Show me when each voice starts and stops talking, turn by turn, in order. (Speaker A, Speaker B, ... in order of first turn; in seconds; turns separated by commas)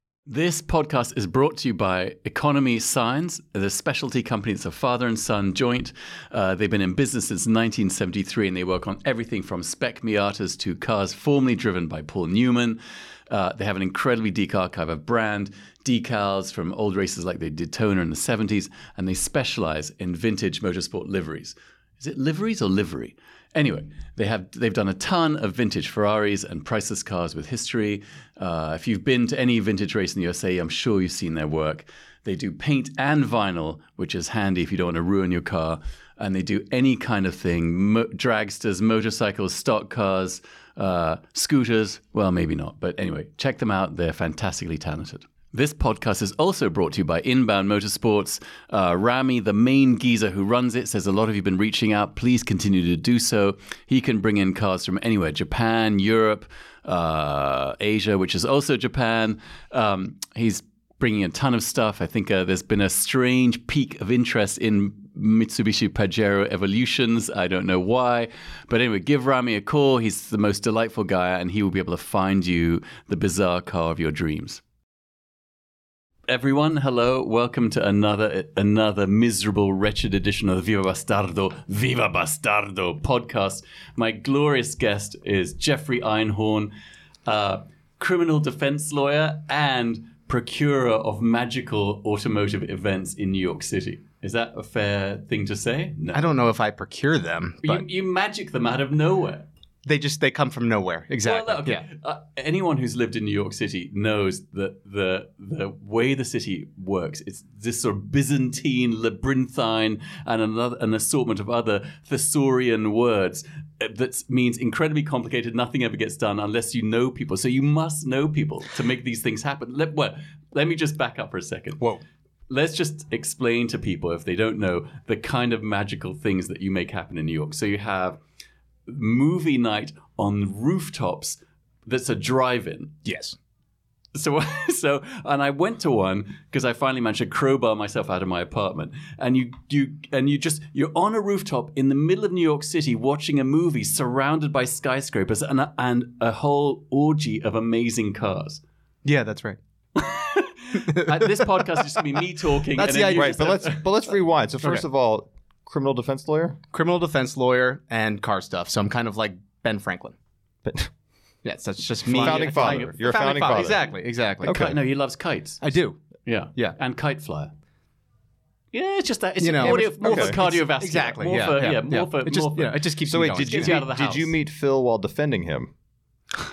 Speaker A: 0.3-74.6, Speaker A: 76.3-86.7, Speaker A: 87.2-96.2, Speaker B: 96.1-97.8, Speaker A: 97.6-99.5, Speaker B: 99.8-101.8, Speaker A: 101.2-121.8, Speaker A: 122.5-128.2, Speaker A: 128.8-132.9, Speaker B: 133.0-133.3, Speaker A: 134.1-148.6, Speaker B: 149.0-149.6, Speaker A: 149.9-153.8, Speaker B: 150.7-152.2, Speaker B: 152.7-153.9, Speaker C: 153.1-156.6, Speaker B: 156.7-160.1, Speaker C: 160.6-160.9, Speaker B: 161.4-164.7, Speaker C: 162.0-163.8, Speaker A: 162.1-163.0, Speaker C: 164.4-164.8, Speaker A: 164.4-165.6, Speaker B: 165.6-166.0, Speaker A: 166.3-167.5, Speaker A: 168.7-172.8, Speaker B: 169.4-173.9, Speaker C: 169.6-170.3, Speaker C: 173.1-175.7, Speaker A: 173.4-174.3